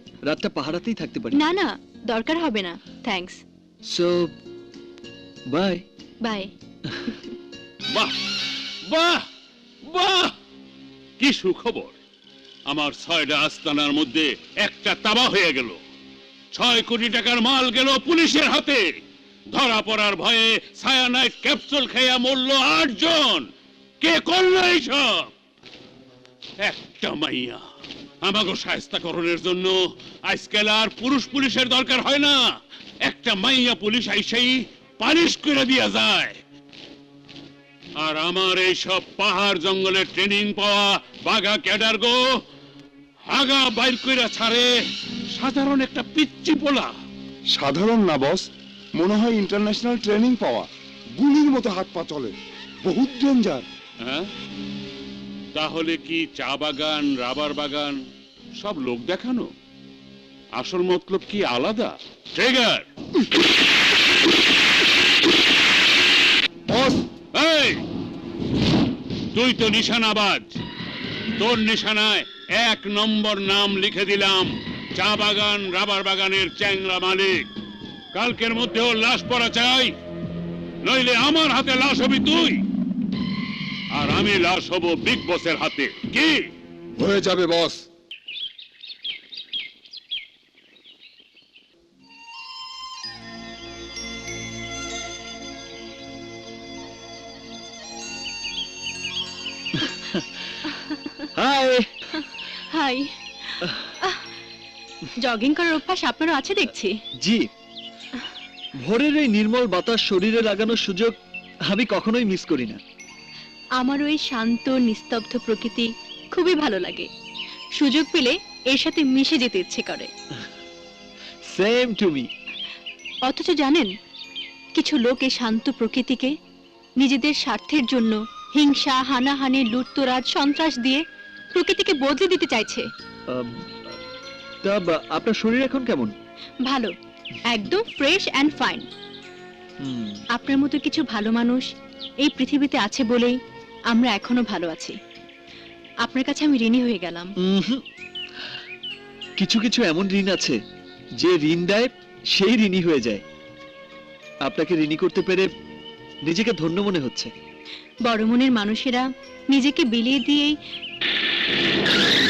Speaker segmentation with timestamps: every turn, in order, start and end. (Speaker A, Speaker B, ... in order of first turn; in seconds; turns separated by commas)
Speaker A: 0.3-1.4, Speaker B: 1.3-3.4, Speaker A: 3.9-4.3, Speaker A: 5.5-5.8, Speaker B: 6.2-6.5, Speaker C: 7.9-9.3, Speaker C: 9.9-10.4, Speaker C: 11.2-11.9, Speaker C: 12.7-15.8, Speaker C: 16.5-18.9, Speaker C: 19.5-23.5, Speaker C: 24.0-25.3, Speaker C: 26.6-27.6, Speaker C: 28.2-36.4, Speaker C: 38.0-42.2, Speaker C: 43.3-44.7, Speaker C: 45.4-46.9, Speaker D: 47.5-52.3, Speaker D: 52.9-53.6, Speaker C: 54.0-54.3, Speaker C: 55.5-58.0, Speaker C: 58.6-59.5, Speaker C: 60.6-62.9, Speaker D: 66.7-67.0, Speaker C: 67.3-67.8, Speaker C: 69.3-70.6, Speaker C: 71.4-77.5, Speaker C: 78.1-80.0, Speaker C: 80.8-82.7, Speaker C: 83.9-86.5, Speaker D: 87.0-87.8, Speaker A: 99.7-100.5, Speaker A: 101.3-102.0, Speaker B: 102.7-104.2, Speaker B: 105.2-106.9, Speaker A: 107.2-107.5, Speaker A: 108.8-111.2, Speaker A: 111.7-112.8, Speaker B: 113.8-117.1, Speaker B: 117.8-120.1, Speaker A: 121.5-122.3, Speaker B: 123.3-123.9, Speaker B: 124.8-126.3, Speaker B: 127.0-131.0, Speaker B: 131.5-132.9, Speaker A: 133.3-134.0, Speaker A: 134.6-136.1, Speaker B: 136.7-136.9, Speaker B: 137.5-138.9, Speaker A: 139.8-140.2, Speaker B: 140.3-141.7, Speaker B: 142.2-143.3, Speaker B: 143.9-144.9, Speaker B: 146.1-147.3, Speaker A: 147.4-147.8, Speaker A: 149.4-150.6, Speaker A: 151.2-153.2, Speaker A: 154.4-155.5, Speaker A: 156.2-157.3, Speaker B: 158.1-160.6